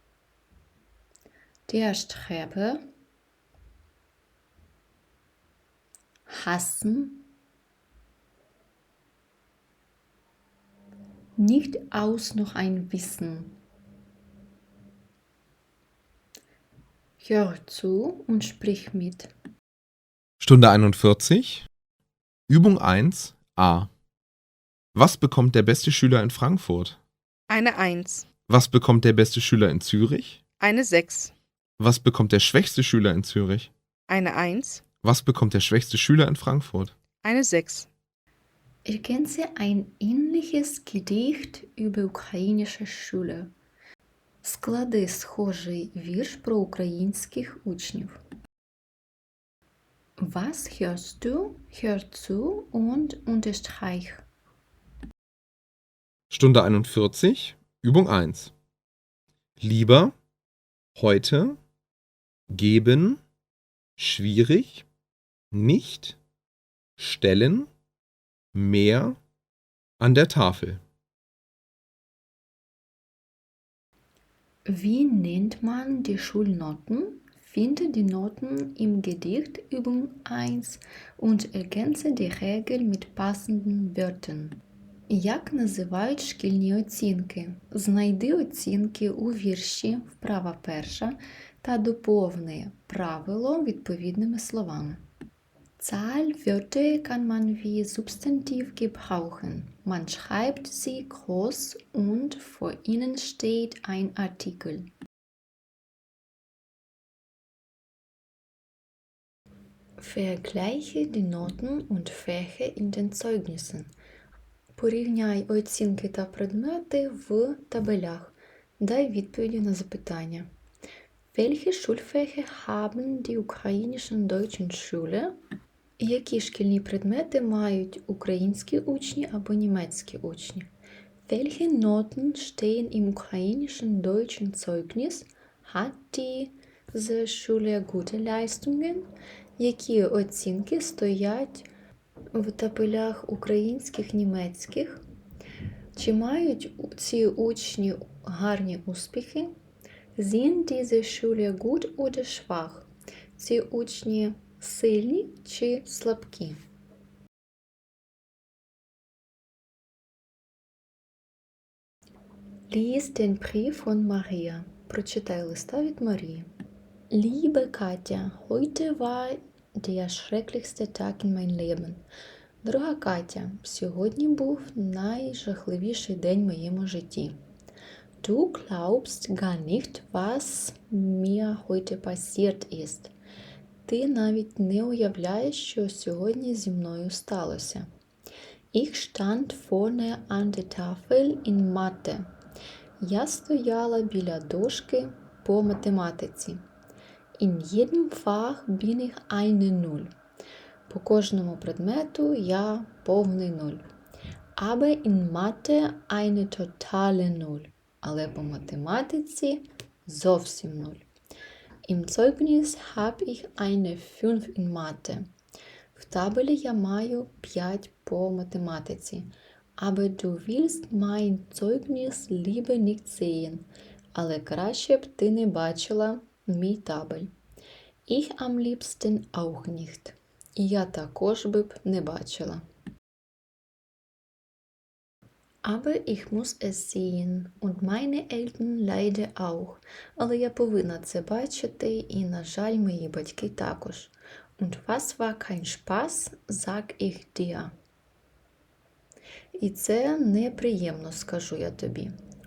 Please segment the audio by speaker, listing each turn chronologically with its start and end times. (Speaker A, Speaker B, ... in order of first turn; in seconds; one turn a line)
Speaker A: 1.7-2.8
Speaker A: 6.3-7.2
Speaker A: 11.4-13.6
Speaker A: 17.2-19.3
Speaker B: 20.4-21.7
Speaker B: 22.5-23.9
Speaker B: 24.9-27.0
Speaker C: 27.5-28.2
Speaker B: 28.5-30.4
Speaker C: 30.6-31.3
Speaker B: 31.8-33.7
Speaker C: 34.1-34.8
Speaker B: 35.0-36.9
Speaker C: 37.2-37.9
Speaker A: 38.8-43.5
Speaker A: 44.4-48.2
Speaker A: 50.2-54.2
Speaker B: 56.3-58.5
Speaker B: 59.6-60.1
Speaker B: 60.9-61.6
Speaker B: 62.5-63.2
Speaker B: 64.0-64.8
Speaker B: 65.5-66.2
Speaker B: 67.0-67.7
Speaker B: 68.5-69.2
Speaker B: 70.0-70.8
Speaker A: 74.7-84.6
Speaker A: 85.1-95.0
Speaker A: 95.8-104.9
Speaker A: 110.0-113.9
Speaker A: 114.8-120.5
Speaker A: 121.3-125.4
Speaker A: 126.0-130.7
Speaker A: 131.3-141.7
Speaker A: 142.3-145.0
Speaker A: 145.9-149.5
Speaker A: 150.2-156.6
Speaker A: 162.7-166.5
Speaker A: 167.1-172.0
Speaker A: 172.6-177.4
Speaker A: 178.2-183.1
Speaker A: 183.8-187.9
Speaker A: 188.7-192.3
Speaker A: 193.0-196.6
Speaker A: 197.4-200.1
Speaker A: 200.9-203.8
Speaker A: 204.6-211.1
Speaker A: 211.8-215.3
Speaker A: 215.9-227.3
Speaker A: 228.1-232.6
Speaker A: 235.6-247.7
Speaker A: 249.6-252.1